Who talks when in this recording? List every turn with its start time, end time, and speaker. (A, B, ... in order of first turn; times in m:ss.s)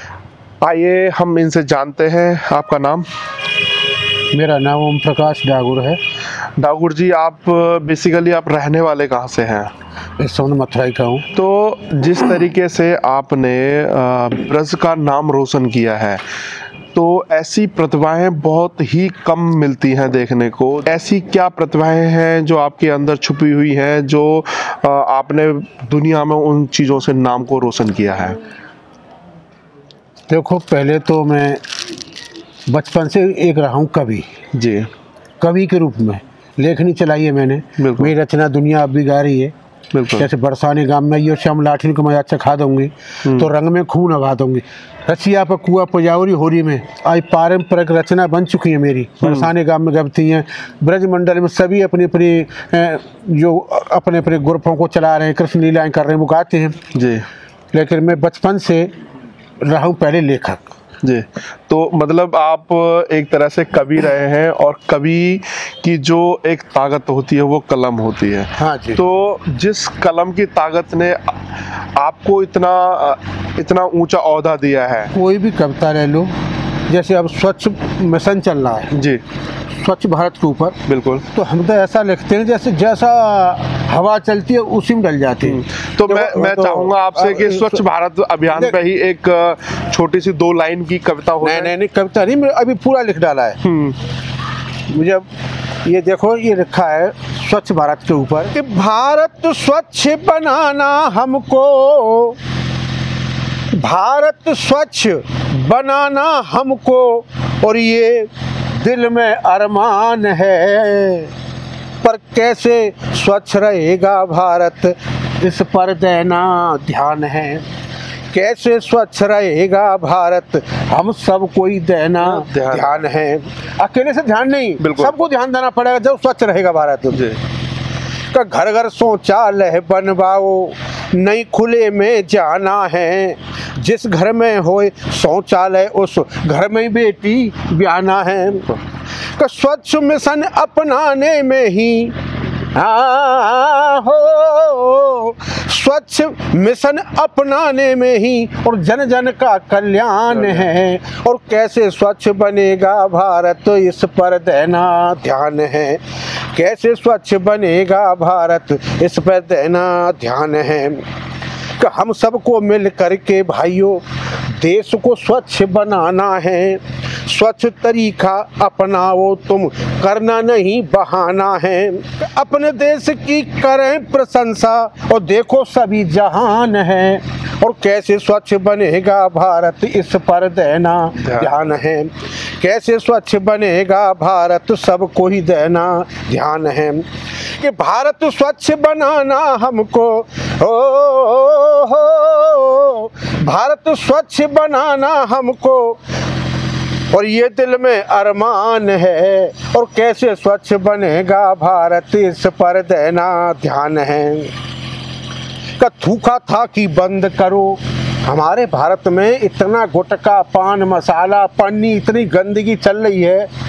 0:00.6-0:03.1 A
0:04.3-0:06.0 B
0:06.6-0:09.7 A
0:10.2-0:11.3 B
0:11.3-0:16.2 A
0:16.9-0:28.4 A
0:30.3-0:31.6 B
0:32.7-0:34.3 B
0:34.5-0:34.9 A
0:35.4-0:39.5 B
0:37.8-0:38.1 A
0:39.9-0:40.3 A
0:40.2-0:56.8 B
0:49.2-0:49.5 A
0:56.9-0:57.3 A
0:57.7-0:58.9 B
0:59.6-1:00.7 B
1:01.0-1:15.1 A
1:08.6-1:09.0 B
1:15.1-1:16.3 B
1:16.9-1:18.9 B
1:18.9-1:19.2 A
1:19.8-1:20.8 B
1:20.9-1:21.2 A
1:21.3-1:27.8 B
1:25.4-1:31.7 A
1:28.5-1:28.8 B
1:31.4-1:33.6 B
1:33.6-1:34.0 A
1:34.9-1:35.3 B
1:35.8-1:42.4 B
1:43.8-1:51.3 B
1:52.0-1:57.6 B
1:58.3-2:07.4 B
2:02.2-2:02.9 A
2:04.8-2:05.2 A
2:07.1-2:07.4 A
2:08.3-2:18.8 B
2:19.4-2:22.2 B
2:22.7-2:36.0 B
2:30.3-2:30.7 A
2:36.5-2:41.0 B
2:41.8-3:16.0 B
3:01.2-3:01.5 A
3:17.1-3:24.5 B
3:25.8-3:33.5 B